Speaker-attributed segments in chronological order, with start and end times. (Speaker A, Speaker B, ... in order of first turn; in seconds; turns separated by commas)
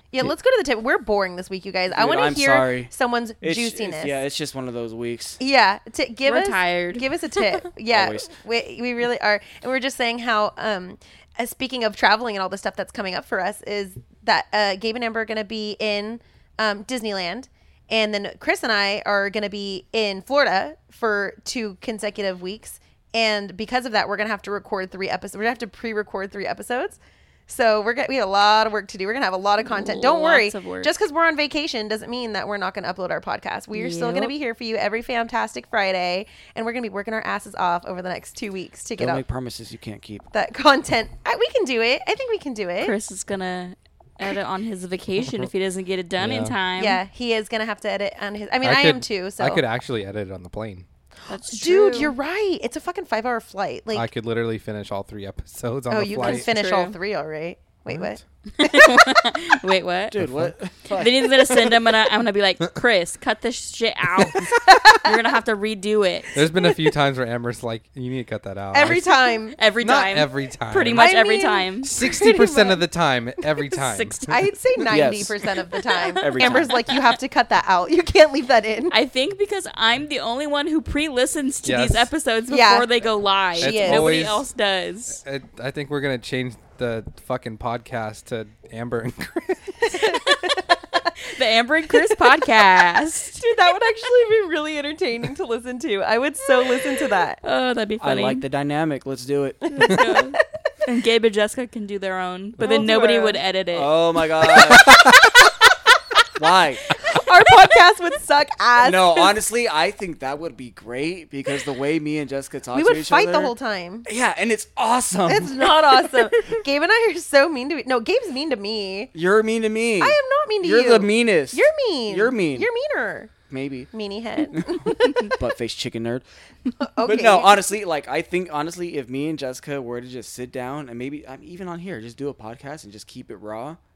Speaker A: 0.1-4.2, Speaker B: 1.9-5.4, Speaker A: 5.4-39.2, Speaker C: 6.2-7.1, Speaker B: 7.9-8.3, Speaker C: 29.6-30.9, Speaker C: 33.7-34.3, Speaker B: 39.0-40.3, Speaker A: 40.3-43.0, Speaker C: 42.8-47.0, Speaker D: 46.2-46.5, Speaker A: 46.8-49.6, Speaker D: 48.6-50.9, Speaker C: 51.3-52.2, Speaker A: 51.3-54.1, Speaker D: 53.9-56.5, Speaker A: 55.9-59.3, Speaker C: 56.2-57.0, Speaker D: 57.9-58.2, Speaker C: 58.5-60.2, Speaker B: 60.1-61.8, Speaker D: 60.2-60.6, Speaker C: 60.9-66.3, Speaker A: 64.5-65.2, Speaker D: 66.3-69.1, Speaker A: 68.7-69.6, Speaker C: 69.6-71.9, Speaker D: 69.8-71.1, Speaker A: 71.0-72.8, Speaker D: 71.8-74.9, Speaker C: 73.7-74.4, Speaker A: 74.3-79.0, Speaker B: 74.9-75.4, Speaker C: 75.8-77.2, Speaker B: 76.2-76.7, Speaker C: 78.9-85.2, Speaker D: 81.7-82.1, Speaker A: 82.5-82.9, Speaker A: 83.5-84.2, Speaker D: 83.6-84.5, Speaker D: 85.2-90.0, Speaker A: 89.8-91.1, Speaker C: 90.1-90.6, Speaker C: 91.2-93.4, Speaker A: 91.9-92.3, Speaker A: 93.3-97.4, Speaker C: 97.4-98.4, Speaker B: 98.0-99.7, Speaker A: 99.7-100.2, Speaker C: 99.8-104.0, Speaker A: 102.6-103.4, Speaker B: 103.7-105.1, Speaker B: 106.4-107.0, Speaker A: 107.0-109.4, Speaker B: 108.8-113.5, Speaker A: 112.7-114.1, Speaker B: 114.1-116.2, Speaker A: 115.3-119.1, Speaker B: 119.1-122.7, Speaker A: 120.0-123.3, Speaker B: 123.5-123.9, Speaker A: 123.9-125.4, Speaker B: 124.5-126.2, Speaker A: 126.8-127.6, Speaker B: 127.0-133.8